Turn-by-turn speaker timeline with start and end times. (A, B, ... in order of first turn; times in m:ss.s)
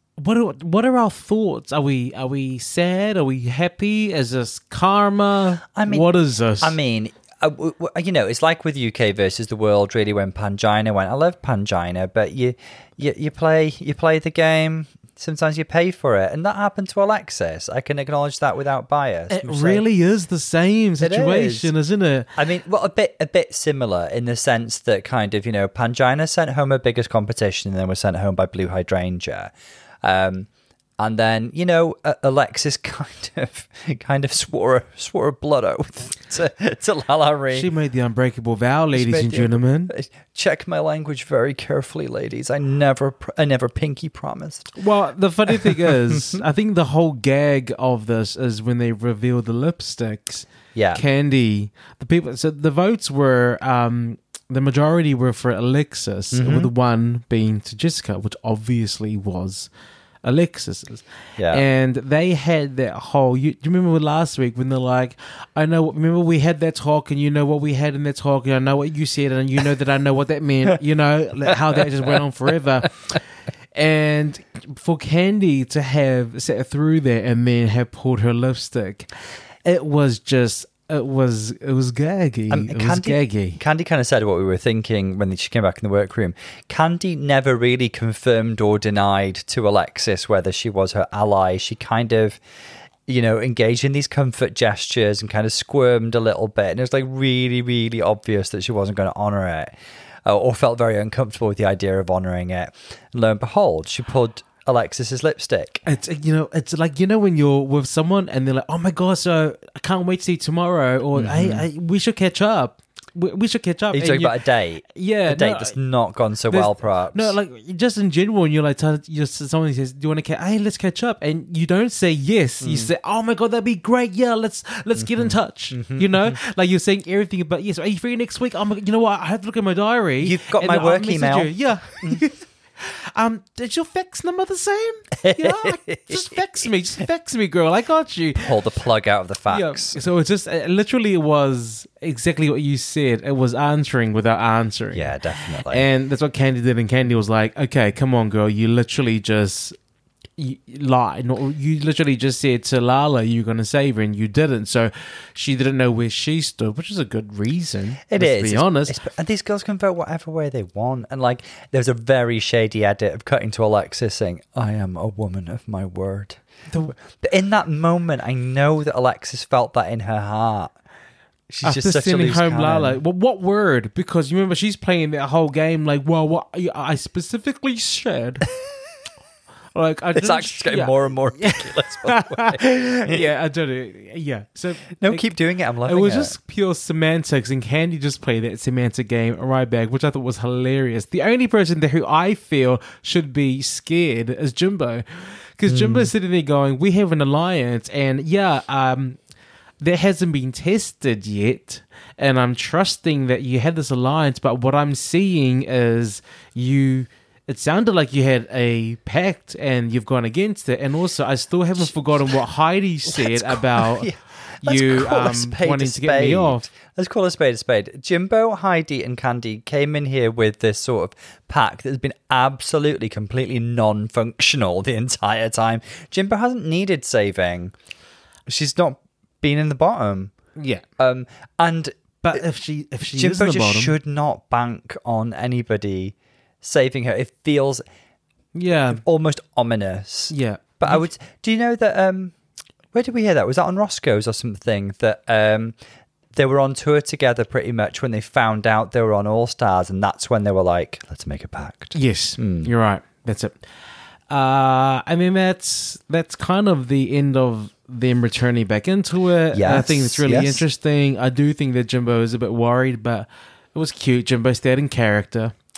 0:00.2-0:06.8 A
0:05.8-0:06.1 B
0:06.6-0:19.8 B
0:19.3-0:22.3 A
0:21.0-0:21.7 B
0:22.4-0:29.5 B
0:30.0-0:30.5 B
0:31.0-0:37.7 B
0:37.5-0:39.9 A
0:38.9-0:44.7 B
0:44.8-0:59.7 A
0:45.6-0:46.4 B
0:50.7-0:51.0 B
0:56.3-0:56.7 B
1:00.2-1:13.2 A
1:01.4-1:01.6 B
1:13.7-1:19.1 A
1:19.6-1:23.6 A
1:22.5-1:32.4 B
1:33.1-1:39.7 B
1:40.2-1:45.8 B
1:45.8-1:55.7 A
1:51.2-1:51.6 B
1:53.9-1:57.3 B
1:56.5-2:18.5 A
2:02.6-2:02.9 B
2:05.0-2:06.4 B
2:10.2-2:12.2 B
2:15.2-2:16.4 B
2:18.4-2:20.0 B
2:19.5-2:25.1 A
2:24.9-2:25.8 B
2:25.7-2:29.8 A
2:30.4-2:39.0 A
2:38.1-2:46.4 B
2:47.1-2:50.7 B
2:51.5-2:53.0 B
2:51.6-2:58.4 A
2:59.7-3:05.3 A
3:00.1-3:03.2 B
3:05.0-3:06.3 B
3:05.8-3:19.2 A
3:15.7-3:16.1 B
3:19.8-3:34.1 A
3:31.8-3:32.3 B
3:33.0-3:47.7 B
3:34.6-3:36.6 A
3:48.5-3:50.3 B
3:50.6-3:50.8 A
3:51.0-3:52.4 B
3:52.2-3:53.9 A
3:53.1-3:57.8 B
3:58.5-3:59.0 A
3:59.0-4:02.3 B
4:00.3-4:01.0 A
4:02.9-4:05.8 B
4:06.3-4:12.7 B
4:11.9-4:13.6 A
4:14.3-4:25.5 A
4:19.5-4:20.6 B